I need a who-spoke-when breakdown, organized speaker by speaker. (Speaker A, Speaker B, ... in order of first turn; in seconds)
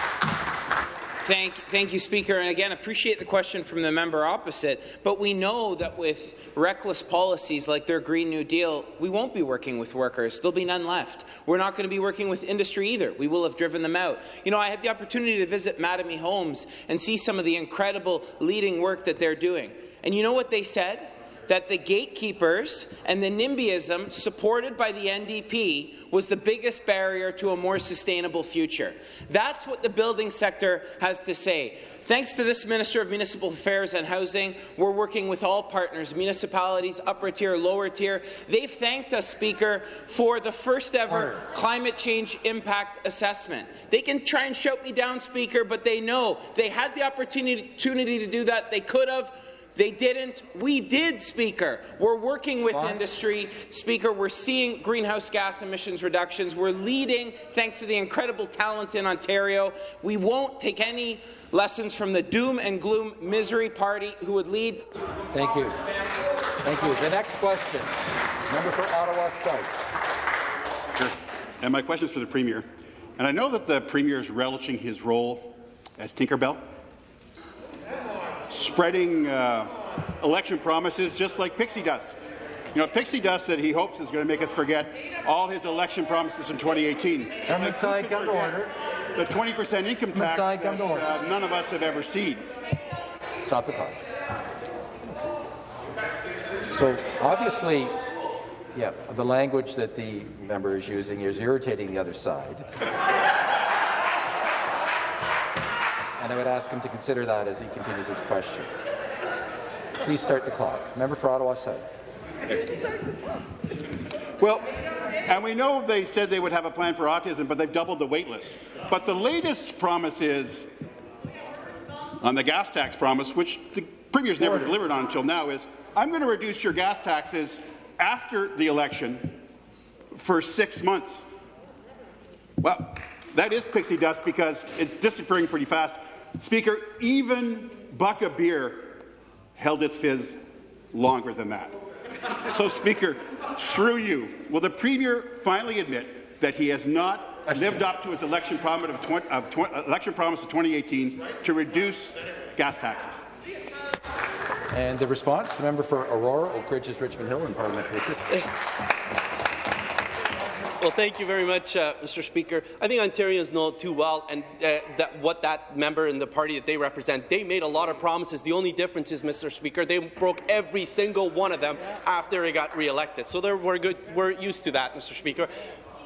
Speaker A: 1.2-64.8
Speaker B: 65.3-65.8, 66.6-67.9, 68.5-69.7, 87.5-88.7, 90.1-91.1, 93.4-94.0, 96.7-98.0, 98.7-102.7, 106.2-108.7, 110.0-111.9, 154.7-158.4
Speaker C: 71.6-72.7, 73.2-76.6, 78.5-82.2, 82.7-92.5, 114.4-114.7, 115.2-120.7, 122.2-129.4, 130.1-131.2, 132.6-139.0, 139.6-140.4, 140.9-141.8, 142.4-153.2
Speaker D: 160.8-175.6